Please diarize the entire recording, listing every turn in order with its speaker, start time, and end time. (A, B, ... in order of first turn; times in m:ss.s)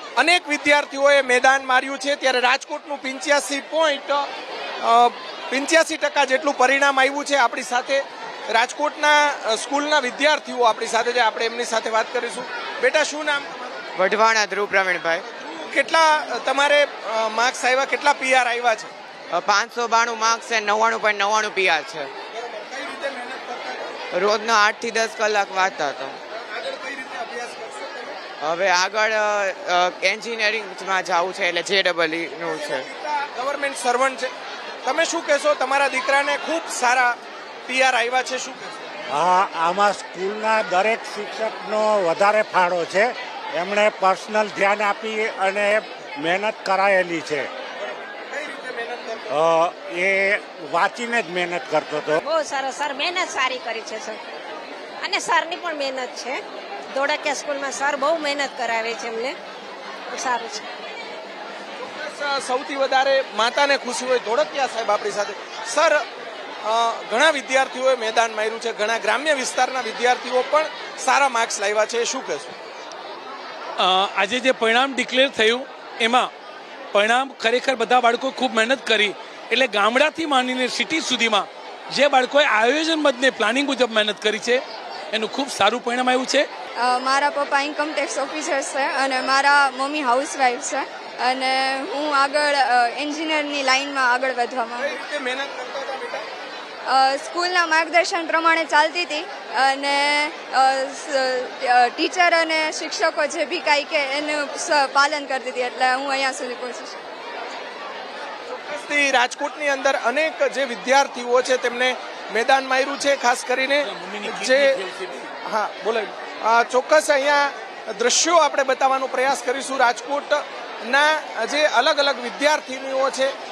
0:00.2-0:04.3 A
0:04.8-0:13.8 A
0:14.0-0:15.2 B
0:15.6-0:18.9 A
0:19.3-0:22.1 B
0:22.4-0:23.9 A
0:24.1-0:26.2 B
0:26.4-0:28.2 A
0:28.4-0:32.8 B
0:32.4-0:34.3 A
0:34.8-0:38.9 A
0:39.1-0:47.5 C
0:48.1-0:49.3 A
0:49.3-0:52.2 C
0:52.2-0:54.2 D
0:55.0-0:56.4 D
0:56.9-0:59.3 D
1:00.1-1:00.6 D
1:01.8-1:06.0 A
1:06.6-1:12.5 A
1:13.8-1:16.3 E
1:16.9-1:24.6 E
1:25.1-1:26.4 E
1:26.8-1:35.0 F
1:34.8-1:36.2 A
1:36.8-1:47.0 F
1:48.5-1:54.7 A
1:53.8-1:55.3 E
1:55.4-2:03.3 A